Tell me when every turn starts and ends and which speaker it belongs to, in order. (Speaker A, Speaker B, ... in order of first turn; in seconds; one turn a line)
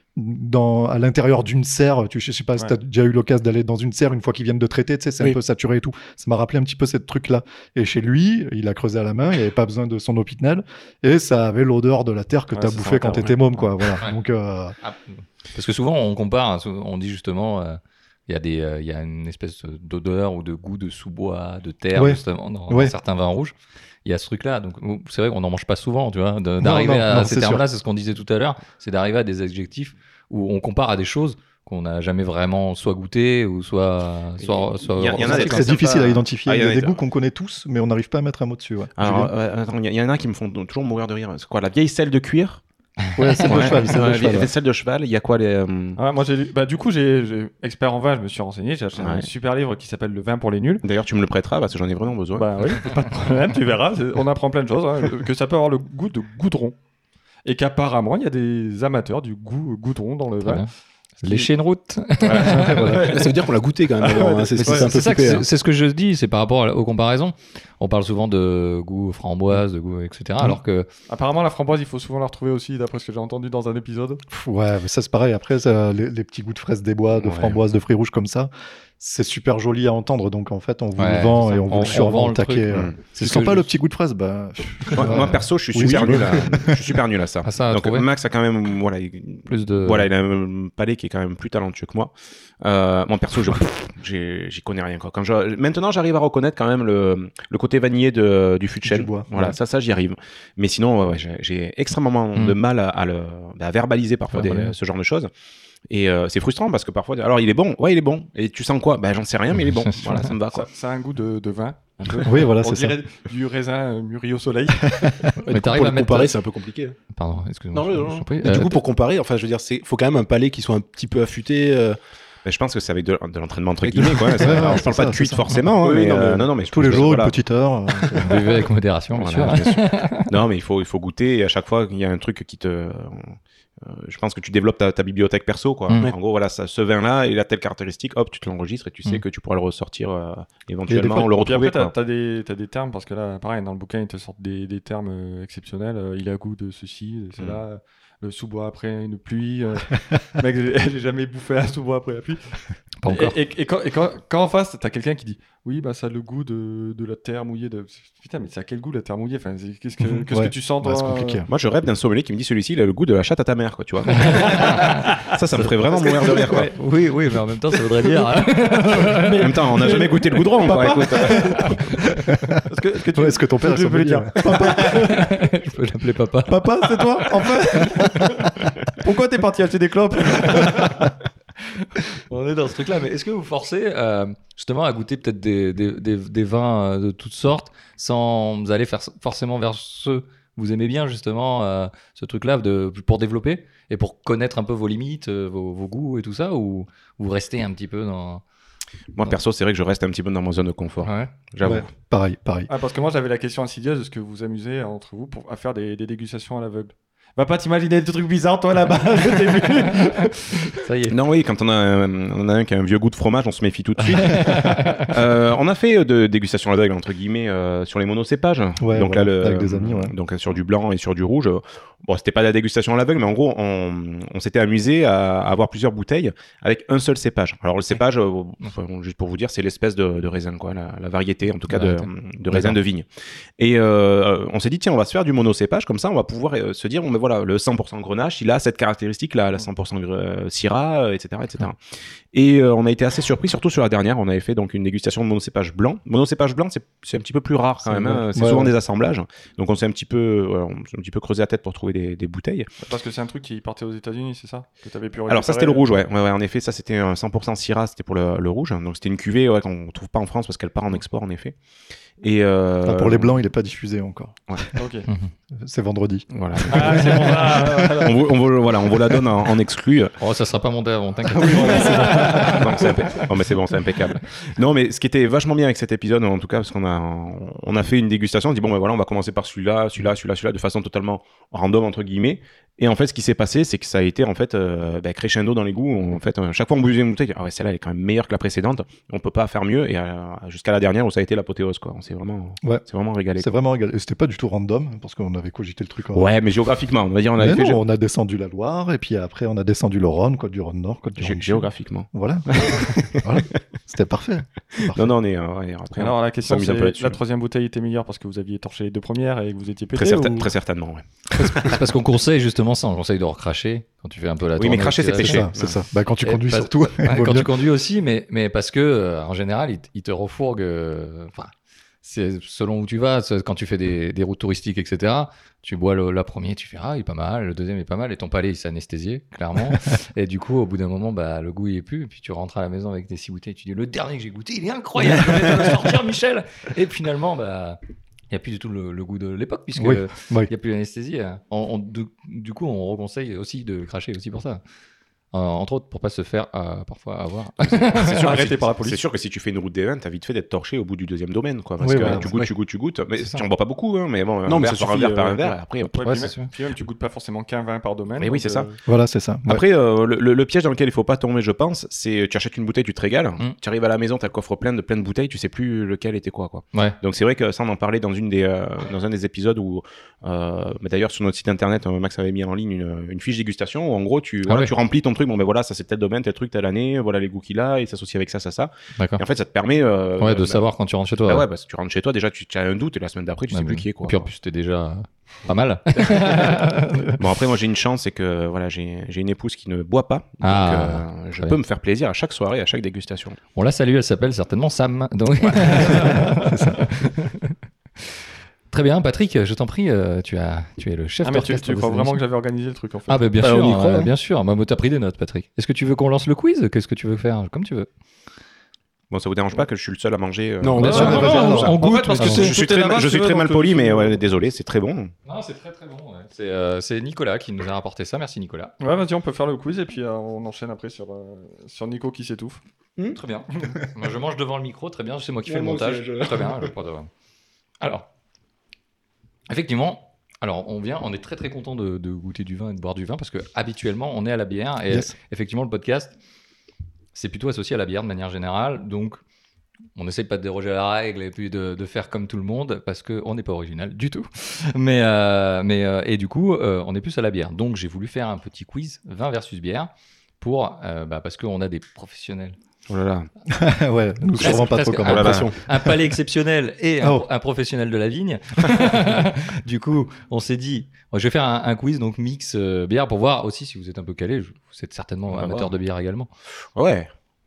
Speaker A: 0.1-14.8
Speaker B: 12.5-14.0
Speaker C: 14.8-23.5
Speaker A: 21.9-22.9
Speaker C: 24.1-35.8
Speaker A: 26.6-27.6
Speaker D: 34.9-37.0
Speaker A: 35.2-39.3
Speaker D: 39.0-42.6
Speaker C: 43.2-43.7
Speaker A: 43.2-44.5
Speaker D: 43.4-46.0
Speaker B: 46.0-50.8
Speaker D: 49.0-49.3
Speaker D: 50.8-52.5
Speaker B: 52.4-56.8
Speaker B: 57.5-60.7
Speaker C: 60.4-60.7
Speaker C: 61.2-63.2
Speaker B: 61.2-61.5
Speaker D: 62.3-62.7
Speaker B: 62.3-63.4
Speaker E: 62.4-65.5
Speaker B: 64.0-64.9
Speaker C: 64.6-70.9
Speaker B: 71.1-74.2
Speaker A: 74.3-86.8
Speaker D: 77.2-77.6
Speaker C: 81.0-83.6
Speaker D: 82.7-83.0
Speaker D: 84.9-105.3
Speaker C: 85.0-85.4
Speaker E: 85.8-86.4
Speaker C: 87.4-88.1
Speaker C: 89.5-90.1
Speaker A: 98.8-99.5
Speaker C: 104.3-104.8
Speaker D: 105.9-110.7
Speaker C: 109.8-110.2
Speaker B: 110.5-115.3
Speaker A: 112.2-113.0
Speaker A: 114.9-115.3
Speaker E: 115.4-117.0
Speaker C: 115.5-116.3
Speaker C: 117.1-118.8
Speaker E: 117.7-122.0
Speaker D: 122.4-127.4
Speaker E: 123.8-126.5
Speaker A: 124.4-125.5
Speaker A: 126.7-128.6
Speaker C: 128.2-130.3
Speaker D: 129.1-141.9
Speaker A: 140.9-141.3
Speaker B: 141.2-161.5
Speaker C: 153.0-153.4
Speaker A: 160.3-161.5
Speaker D: 161.5-166.7
Speaker B: 164.2-165.3
Speaker C: 164.2-170.0
Speaker B: 166.0-166.7
Speaker B: 167.8-175.3
Speaker D: 169.4-171.8
Speaker C: 171.4-172.0
Speaker A: 172.3-172.6
Speaker A: 173.2-175.0
Speaker C: 174.6-176.7
Speaker B: 176.5-181.1
Speaker A: 176.5-178.7
Speaker C: 180.4-180.9
Speaker C: 182.3-198.4
Speaker D: 199.2-201.9
Speaker C: 201.0-201.3
Speaker A: 201.6-202.7
Speaker B: 202.7-210.8
Speaker C: 210.8-211.2
Speaker D: 211.1-233.1
Speaker C: 214.3-215.1
Speaker A: 218.8-220.1
Speaker C: 231.7-232.8
Speaker D: 233.6-252.7
Speaker A: 248.3-248.7
Speaker B: 252.8-255.9
Speaker D: 255.3-261.6
Speaker D: 262.2-263.4
Speaker A: 262.8-264.8
Speaker B: 264.8-265.1
Speaker A: 265.6-267.0
Speaker D: 266.3-270.1
Speaker B: 266.6-268.3
Speaker C: 270.2-273.2
Speaker A: 271.4-272.5
Speaker B: 271.4-273.2
Speaker D: 271.8-293.5
Speaker A: 293.4-296.3
Speaker D: 296.1-297.8
Speaker A: 297.4-305.1
Speaker D: 301.2-303.6
Speaker D: 304.8-307.2
Speaker B: 305.9-310.5
Speaker D: 310.0-311.8
Speaker C: 311.4-315.5
Speaker D: 314.6-315.8
Speaker A: 315.2-317.5
Speaker C: 316.2-337.8
Speaker C: 338.3-344.6
Speaker A: 339.8-340.5
Speaker C: 345.3-348.6
Speaker D: 347.6-356.0
Speaker B: 348.1-349.0
Speaker A: 351.8-352.3
Speaker C: 352.0-352.5
Speaker E: 354.5-355.6
Speaker B: 355.9-358.8
Speaker C: 356.0-356.5
Speaker D: 358.2-358.7
Speaker A: 358.9-359.6
Speaker D: 359.4-380.6
Speaker C: 374.5-374.7
Speaker C: 379.0-379.2
Speaker C: 380.2-381.5
Speaker D: 381.3-384.3
Speaker C: 383.5-387.2
Speaker D: 386.1-386.4
Speaker D: 387.2-393.4
Speaker C: 390.4-391.6
Speaker C: 393.6-397.6
Speaker C: 398.7-402.2
Speaker B: 401.2-403.3
Speaker C: 403.1-407.9
Speaker E: 403.4-404.1
Speaker D: 409.1-415.1
Speaker E: 410.6-411.8
Speaker C: 410.8-412.7
Speaker A: 410.9-411.8
Speaker B: 411.0-414.2
Speaker C: 415.3-418.7
Speaker B: 418.8-422.6
Speaker C: 423.1-427.1
Speaker E: 425.5-426.7
Speaker C: 427.8-428.1
Speaker C: 429.5-436.1
Speaker C: 437.1-439.2
Speaker C: 440.0-452.6
Speaker D: 452.9-453.3
Speaker A: 453.5-455.9
Speaker D: 454.4-455.5
Speaker C: 454.4-466.3
Speaker E: 455.1-455.4
Speaker A: 457.0-457.3
Speaker D: 465.3-465.7
Speaker D: 466.8-467.1